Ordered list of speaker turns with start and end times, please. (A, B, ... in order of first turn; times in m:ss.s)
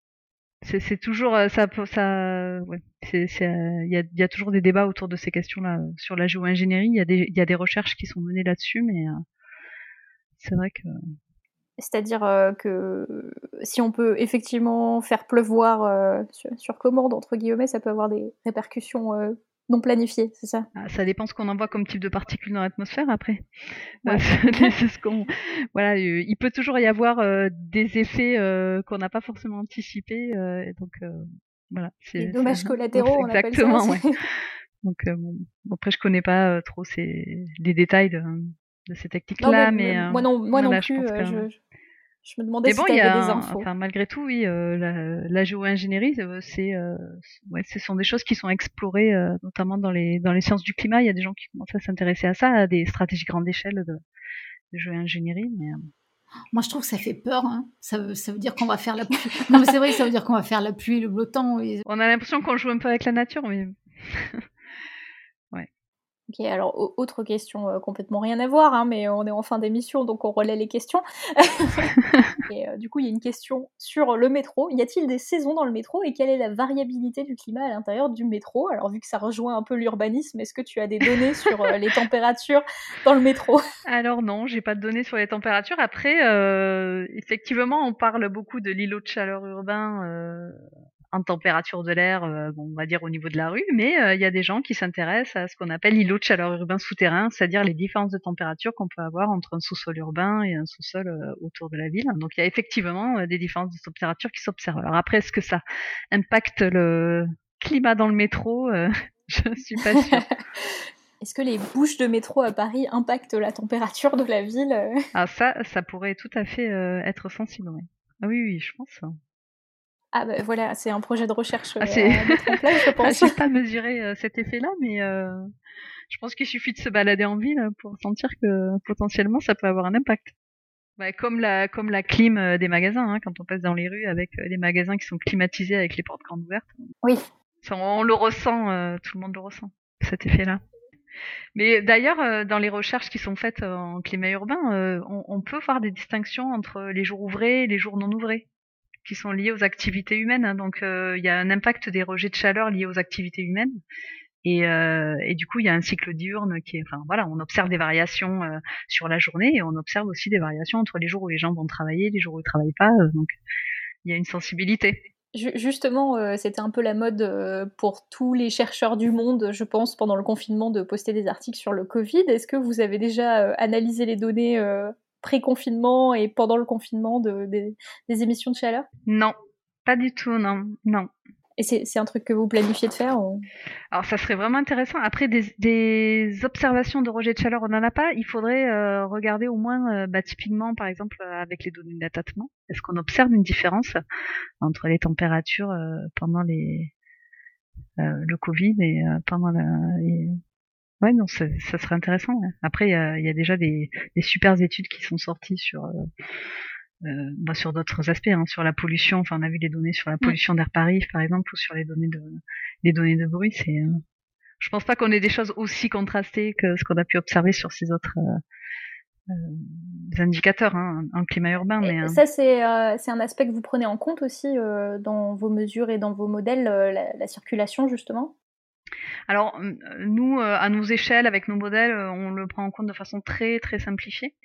0:00.6-0:09.2 A
0:10.4-0:10.9 A
0:11.8-0:20.7 B
0:20.7-0:23.5 A
0:24.0-0:24.7 B
0:24.0-0:34.1 A
0:32.2-0:34.0 B
0:34.8-0:41.5 A
0:39.4-0:41.6 B
0:42.2-0:43.6 B
0:42.6-0:54.0 A
0:54.7-0:55.9 A
0:56.5-1:01.8 C
1:01.9-1:04.4 A
1:06.3-1:23.6 B
1:23.8-1:50.2 A
1:50.1-1:50.6 B
1:51.2-1:55.0 B
1:55.1-1:59.1 A
2:00.1-2:03.3 B
2:01.8-2:05.5 A
2:06.1-2:10.3 A
2:11.0-2:16.7 A
2:17.6-2:20.6 A
2:21.6-2:28.4 A
2:29.0-2:33.8 A
2:34.4-2:43.3 A
2:44.0-2:45.0 A
2:45.3-2:58.9 B
2:59.1-2:59.3 A
2:59.8-3:01.1 A
3:01.6-3:03.4 B
3:03.9-3:14.0 A
3:14.6-3:16.9 A
3:18.0-3:20.4 A
3:21.0-3:25.9 A
3:27.0-3:34.0 A
3:34.6-3:38.4 A
3:39.3-3:42.2 A
3:41.8-3:48.3 B
3:49.3-3:54.3 A